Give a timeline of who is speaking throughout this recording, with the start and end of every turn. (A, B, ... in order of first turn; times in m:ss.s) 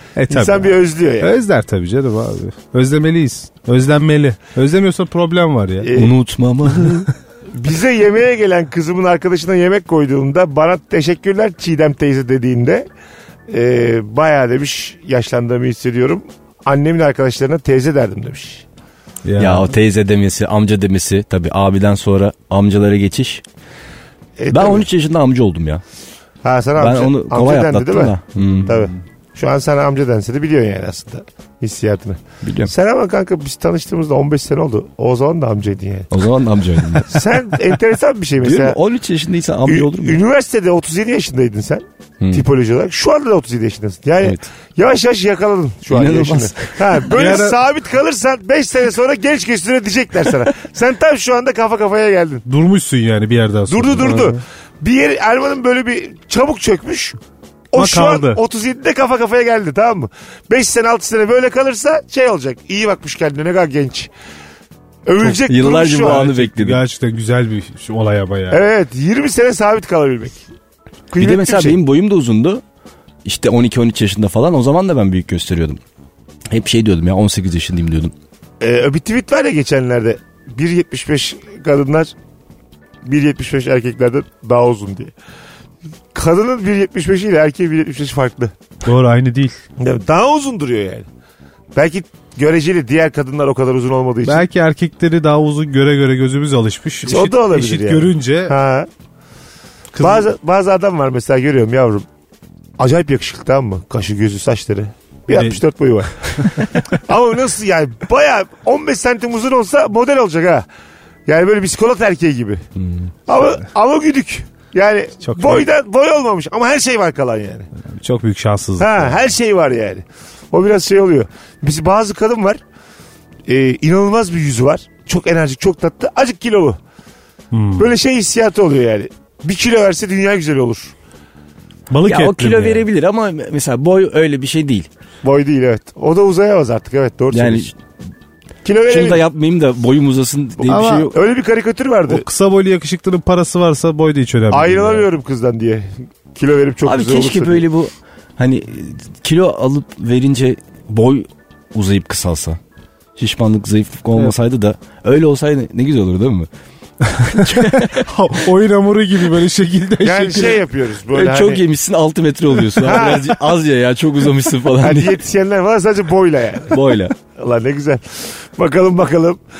0:00.2-0:05.9 A
0:00.3-0:01.3 B
0:05.8-0:06.1 B
0:05.9-0:07.1 C
0:07.5-0:12.9 B
0:13.5-0:18.6 B
0:19.2-0:19.7 A
0:19.4-0:23.4 C
0:24.4-0:24.9 B
0:24.5-0:25.8 C
0:26.4-0:36.1 B
0:26.8-0:28.9 C
0:32.4-0:32.7 C
0:36.1-0:37.2 C
0:37.1-0:38.8 B
0:38.4-0:40.2 C
0:39.7-0:52.4 B
0:42.2-0:42.4 C
0:44.2-0:44.5 C
0:45.9-0:47.1 C
0:47.1-0:47.6 A
0:52.5-0:54.4 A
0:53.7-0:57.2 B
0:57.7-1:04.1 B
0:57.8-0:58.4 A
1:05.1-1:06.2 B
1:05.2-1:06.8 C
1:06.0-1:08.6 A
1:08.5-1:10.4 B
1:11.1-1:11.8 B
1:11.2-1:12.6 C
1:13.2-1:15.8 C
1:16.5-1:18.1 C
1:18.6-1:22.1 B
1:23.0-1:25.1 B
1:26.1-1:28.5 B
1:28.8-1:29.6 A
1:29.8-1:31.1 B
1:31.8-1:34.4 B
1:34.2-1:38.6 A
1:37.0-1:38.9 B
1:39.9-1:40.3 A
1:40.0-1:42.1 B
1:42.8-1:50.7 B
1:45.3-1:45.6 A
1:51.3-1:52.6 B
1:52.8-1:53.1 C
1:53.3-1:57.7 B
1:55.2-1:55.7 A
1:57.8-1:59.2 A
1:58.8-2:02.6 B
2:03.5-2:06.8 B
2:07.5-2:07.9 A
2:07.8-2:10.9 B
2:11.9-2:12.9 A
2:12.1-2:14.9 C
2:15.2-2:17.7 B
2:17.3-2:17.8 C
2:18.6-2:19.2 B
2:18.9-2:21.2 C
2:20.7-2:21.1 A
2:20.8-2:22.2 B
2:22.1-2:25.1 A
2:24.5-2:27.6 B
2:26.8-2:32.6 C
2:33.2-2:36.5 C
2:37.0-2:40.6 A
2:37.3-2:38.1 C
2:40.0-2:41.6 B
2:41.1-2:45.2 C
2:42.8-2:43.3 B
2:44.8-2:49.4 B
2:46.7-2:47.1 C